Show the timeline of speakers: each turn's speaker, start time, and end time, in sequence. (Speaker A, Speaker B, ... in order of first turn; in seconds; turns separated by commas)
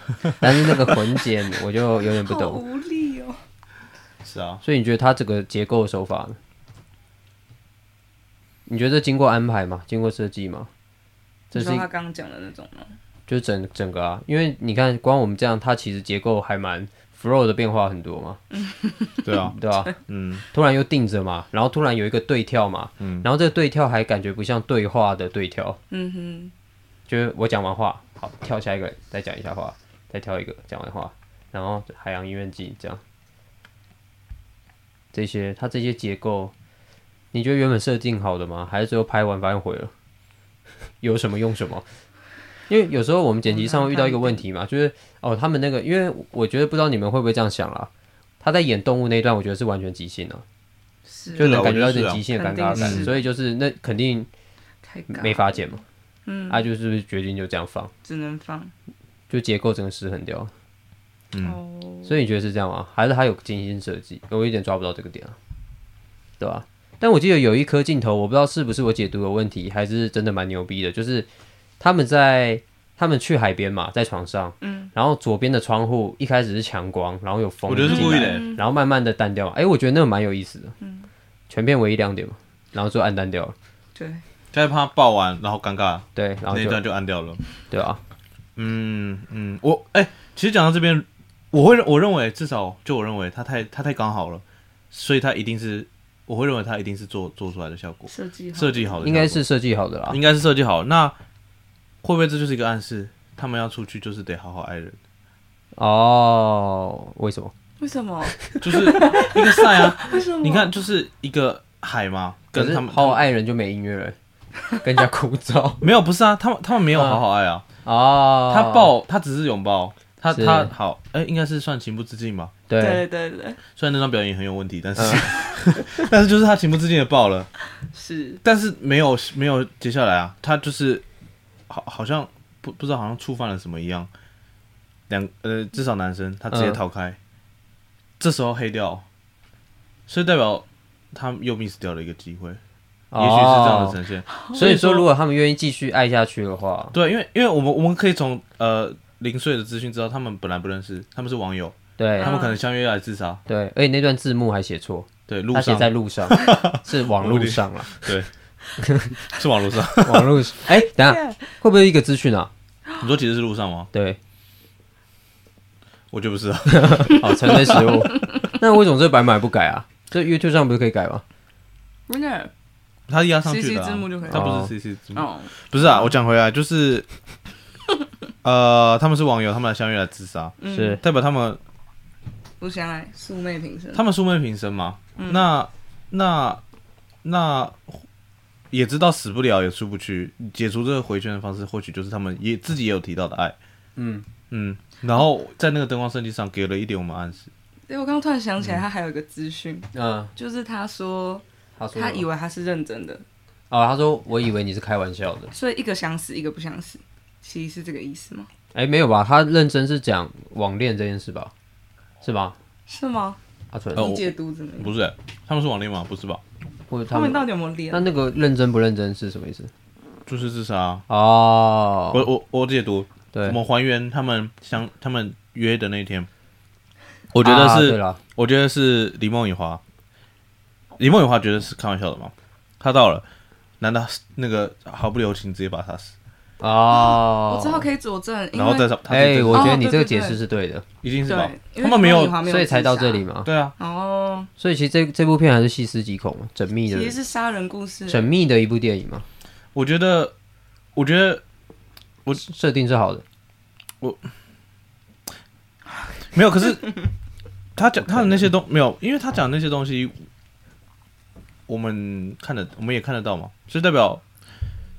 Speaker A: 0.3-2.6, Speaker B: 2.0-3.4, Speaker C: 4.2-4.6, Speaker A: 4.6-6.4, Speaker A: 8.7-10.7, Speaker A: 11.5-11.9, Speaker B: 11.5-12.9, Speaker A: 13.3-18.4, Speaker B: 18.5-19.4, Speaker C: 19.2-20.4, Speaker A: 19.5-19.9, Speaker A: 20.5-25.8, Speaker C: 23.0-23.3, Speaker B: 25.9-26.5, Speaker A: 27.1-33.0, Speaker A: 35.1-36.5, Speaker A: 37.3-39.9, Speaker A: 41.0-41.9, Speaker A: 42.7-50.4, Speaker B: 43.5-44.4, Speaker B: 51.1-51.6, Speaker C: 51.4-53.1, Speaker A: 51.4-54.3, Speaker B: 52.3-53.2, Speaker B: 54.8-55.6, Speaker A: 55.1-55.8, Speaker B: 56.3-56.6, Speaker A: 56.5-57.9, Speaker B: 58.0-58.7, Speaker A: 59.3-60.5, Speaker C: 61.3-61.6, Speaker B: 61.4-62.2, Speaker A: 62.0-65.4, Speaker A: 66.4-71.3, Speaker A: 71.8-80.8, Speaker B: 74.6-74.9, Speaker C: 77.7-78.5, Speaker B: 77.8-78.6, Speaker B: 80.8-81.1, Speaker A: 81.5-83.5, Speaker B: 84.0-84.2, Speaker C: 84.5-87.4, Speaker A: 86.2-86.8, Speaker A: 87.7-88.0, Speaker C: 88.6-99.4, Speaker B: 98.1-99.0, Speaker A: 99.0-100.2, Speaker C: 100.1-101.2, Speaker C: 102.0-105.0, Speaker A: 105.8-107.5, Speaker B: 107.8-110.7, Speaker A: 108.3-109.0, Speaker C: 108.6-113.2, Speaker A: 112.5-114.2, Speaker A: 114.7-115.8, Speaker C: 115.8-117.7, Speaker A: 116.9-117.2, Speaker A: 117.8-118.9, Speaker C: 118.5-122.5, Speaker A: 120.3-120.7, Speaker A: 122.7-123.0, Speaker B: 122.8-123.6, Speaker C: 123.8-127.5, Speaker A: 125.0-125.3, Speaker B: 127.9-128.4, Speaker C: 128.4-131.1, Speaker C: 131.7-134.1, Speaker C: 135.1-137.2, Speaker A: 136.5-136.8, Speaker C: 138.2-139.1, Speaker C: 140.1-142.6, Speaker A: 143.1-144.0, Speaker C: 143.2-145.1, Speaker A: 144.5-146.9, Speaker C: 146.9-153.4, Speaker A: 152.0-152.3, Speaker B: 152.2-152.6, Speaker A: 153.5-158.2, Speaker C: 155.3-158.3, Speaker A: 158.8-159.2, Speaker C: 159.3-160.4, Speaker A: 160.0-162.5, Speaker B: 160.9-161.4, Speaker C: 163.0-163.9, Speaker A: 163.9-164.2, Speaker C: 166.1-168.0, Speaker A: 166.7-171.2, Speaker B: 172.1-172.5, Speaker C: 173.1-177.1, Speaker B: 173.4-174.5, Speaker A: 174.3-174.7, Speaker B: 175.1-176.1, Speaker C: 178.4-181.6, Speaker B: 180.6-181.0, Speaker A: 180.7-181.0, Speaker B: 182.6-184.0, Speaker C: 183.9-186.6, Speaker B: 185.2-185.4, Speaker C: 187.2-188.0, Speaker C: 188.7-193.6, Speaker A: 194.0-194.3, Speaker C: 194.5-197.5, Speaker B: 197.9-203.2, Speaker A: 199.9-200.3, Speaker A: 201.8-202.3, Speaker A: 203.7-205.5, Speaker B: 205.5-208.5, Speaker A: 208.8-211.5, Speaker A: 212.2-212.6, Speaker B: 212.9-213.4, Speaker A: 213.7-214.2, Speaker B: 213.9-214.9, Speaker C: 214.0-216.4, Speaker A: 216.9-219.7, Speaker B: 217.1-218.1, Speaker C: 220.3-221.1, Speaker A: 221.1-222.3, Speaker C: 222.1-226.3, Speaker A: 223.3-223.6, Speaker C: 227.3-229.8, Speaker A: 227.4-228.2, Speaker C: 231.0-233.3, Speaker C: 233.8-236.2, Speaker A: 236.6-237.9, Speaker B: 236.9-238.9, Speaker C: 238.5-239.8, Speaker A: 239.1-240.8, Speaker B: 239.5-240.4, Speaker C: 241.0-242.4, Speaker B: 241.3-243.3, Speaker A: 242.4-243.5, Speaker C: 243.5-243.8, Speaker B: 243.8-244.5, Speaker A: 244.6-247.2, Speaker B: 246.9-248.3, Speaker A: 248.1-249.3, Speaker C: 249.7-250.3, Speaker C: 250.9-251.4, Speaker A: 252.3-253.2, Speaker C: 256.3-256.9, Speaker C: 257.8-260.1, Speaker A: 258.0-258.5, Speaker C: 261.7-264.2